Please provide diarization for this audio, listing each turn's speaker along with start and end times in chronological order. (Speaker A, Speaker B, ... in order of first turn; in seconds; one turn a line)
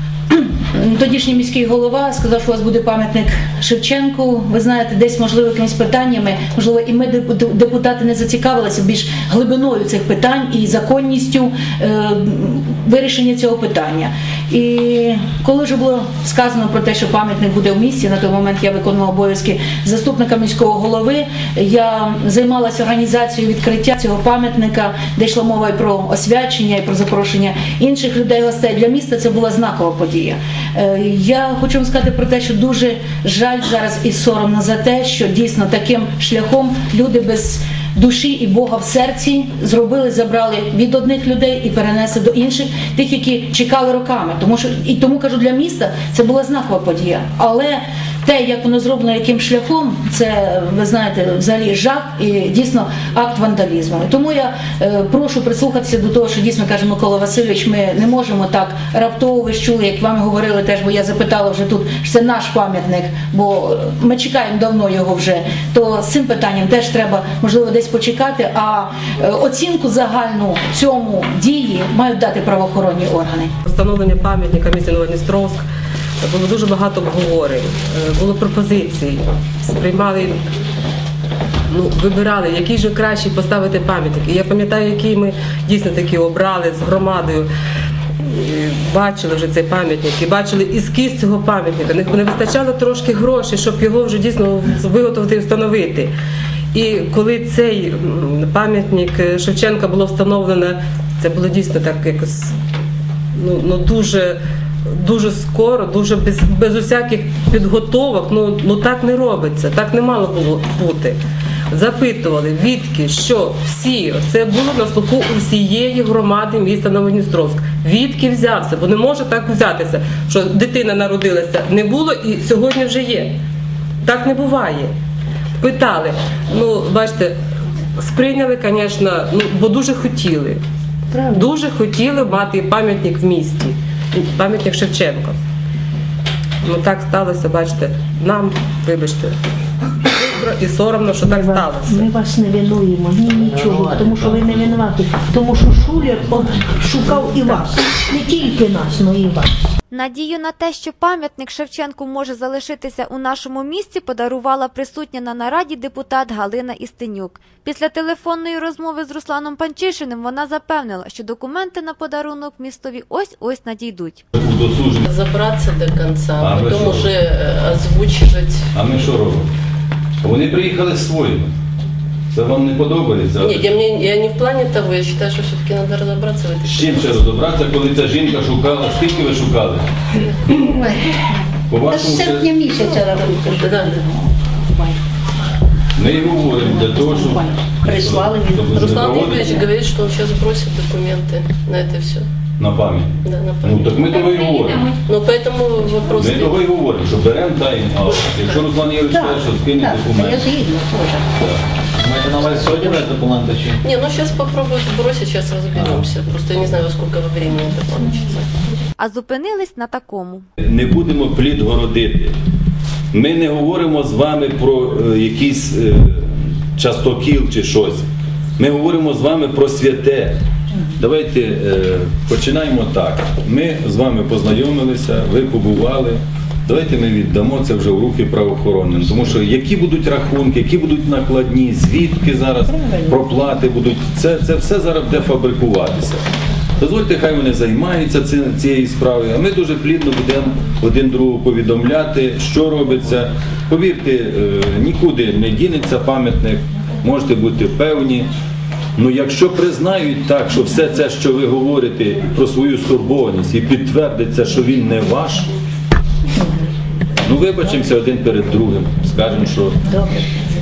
Speaker A: 0.3-73.5
Speaker B: 73.7-75.6
Speaker B: 76.2-80.4
Speaker B: 81.7-87.5
Speaker B: 88.3-96.1
Speaker B: 96.7-102.5
Speaker B: 103.4-104.4
Speaker B: 105.0-111.2
Speaker B: 111.7-123.4
Speaker B: 124.0-124.9
Speaker B: 125.6-127.3
Speaker B: 128.0-130.6
Speaker B: 131.2-135.4
Speaker B: 136.6-139.4
Speaker B: 140.1-142.1
Speaker C: 141.2-149.5
Speaker D: 143.7-144.7
Speaker E: 149.9-164.2
Speaker F: 164.3-165.0
Speaker G: 165.1-168.6
Speaker F: 166.4-167.1
Speaker F: 168.7-169.5
Speaker F: 170.2-171.5
Speaker F: 172.3-173.8
Speaker G: 173.4-177.2
Speaker F: 176.6-179.8
Speaker F: 181.7-182.6
Speaker C: 181.9-183.7
Speaker G: 183.1-184.0
Speaker F: 186.0-189.7
Speaker C: 187.9-188.7
Speaker G: 188.7-192.3
Speaker F: 192.6-194.9
Speaker G: 193.2-194.0
Speaker G: 195.1-196.6
Speaker F: 196.2-200.7
Speaker C: 199.1-201.2
Speaker F: 201.3-201.6
Speaker D: 202.1-203.8
Speaker G: 203.8-208.5
Speaker E: 209.0-210.4
Speaker F: 210.6-212.3
Speaker F: 213.1-218.1
Speaker F: 218.6-220.4
Speaker F: 220.9-236.2
Speaker F: 236.8-248.3
Speaker F: 249.0-255.5
Speaker F: 257.2-259.9